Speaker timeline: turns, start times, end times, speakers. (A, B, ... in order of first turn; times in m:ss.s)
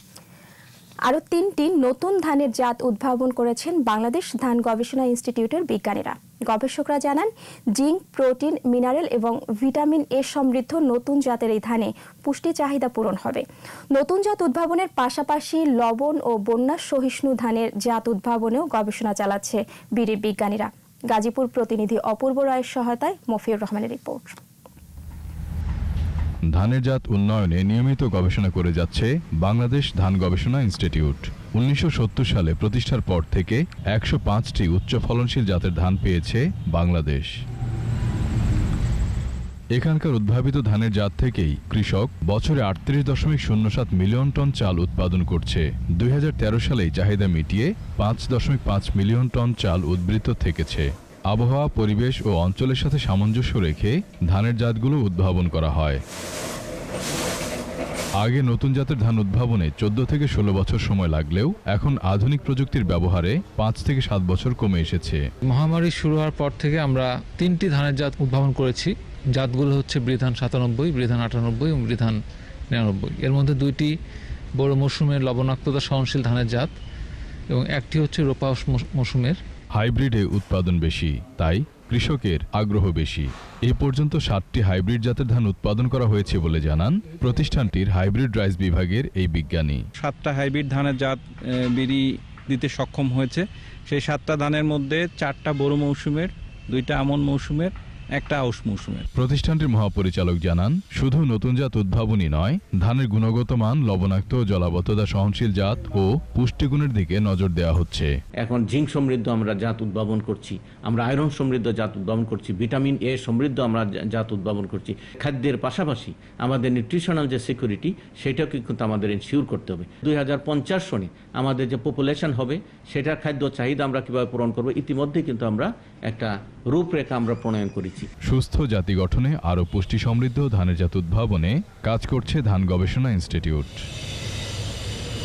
0:01.1-0:13.4 A
0:13.9-0:24.4 A
0:26.5-0:37.3 B
0:39.8-0:56.0 B
0:58.2-1:05.2 B
1:05.5-1:12.2 C
1:12.7-1:13.9 C
1:14.6-1:16.7 C
1:17.5-1:19.4 C
1:19.8-1:29.8 B
1:30.0-1:39.0 D
1:39.2-1:48.1 B
1:48.4-2:08.1 E
2:08.2-2:13.8 B